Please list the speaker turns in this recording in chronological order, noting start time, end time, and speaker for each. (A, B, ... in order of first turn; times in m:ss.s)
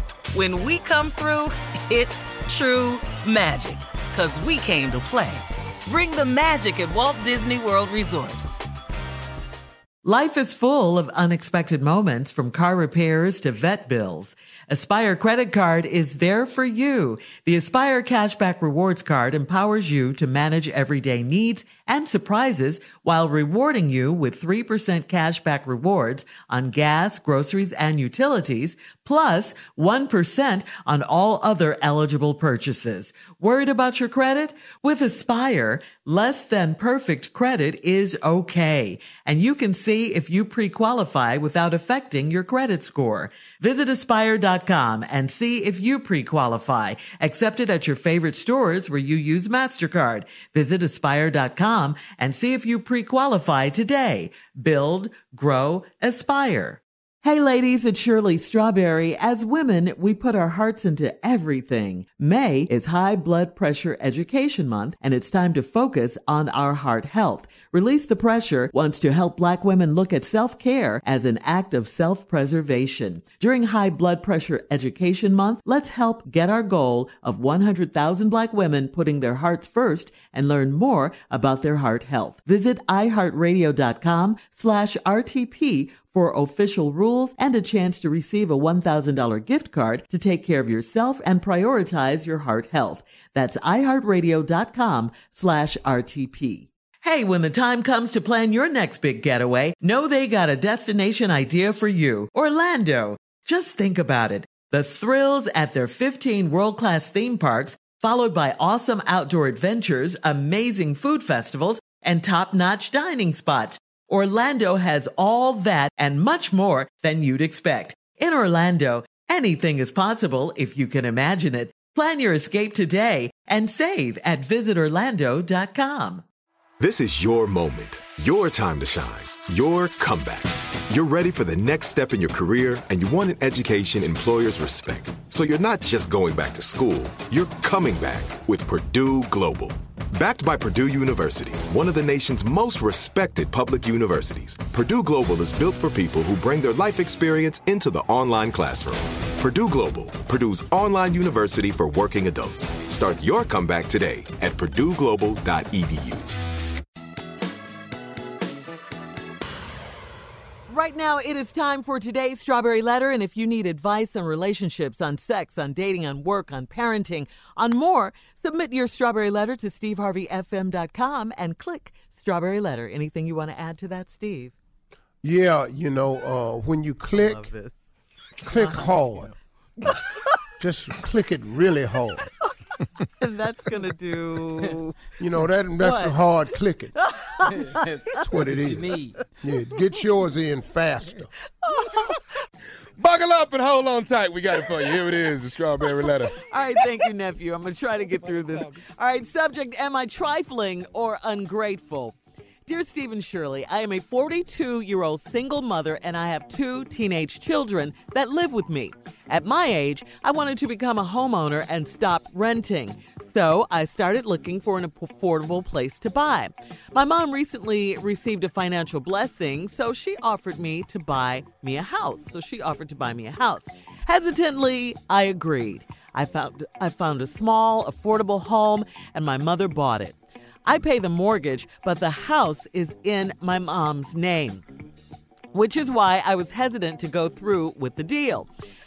0:00.3-0:08.4 A
0:10.0-2:06.2 B
2:06.8-2:36.3 C
2:40.7-2:54.6 B
2:55.2-2:57.5 D
2:57.1-2:57.8 B
2:58.4-2:59.3 D
2:58.5-2:58.9 B
3:00.6-3:02.3 D
3:03.2-3:05.0 B
3:05.2-3:06.9 D
3:05.8-3:06.2 B
3:07.0-3:08.2 B
3:08.2-3:11.3 D
3:08.4-3:09.0 E
3:11.6-3:12.2 B
3:13.0-3:16.4 E
3:16.4-3:22.2 B
3:18.3-3:18.7 E
3:22.7-3:54.6 B
3:55.5-3:58.5 B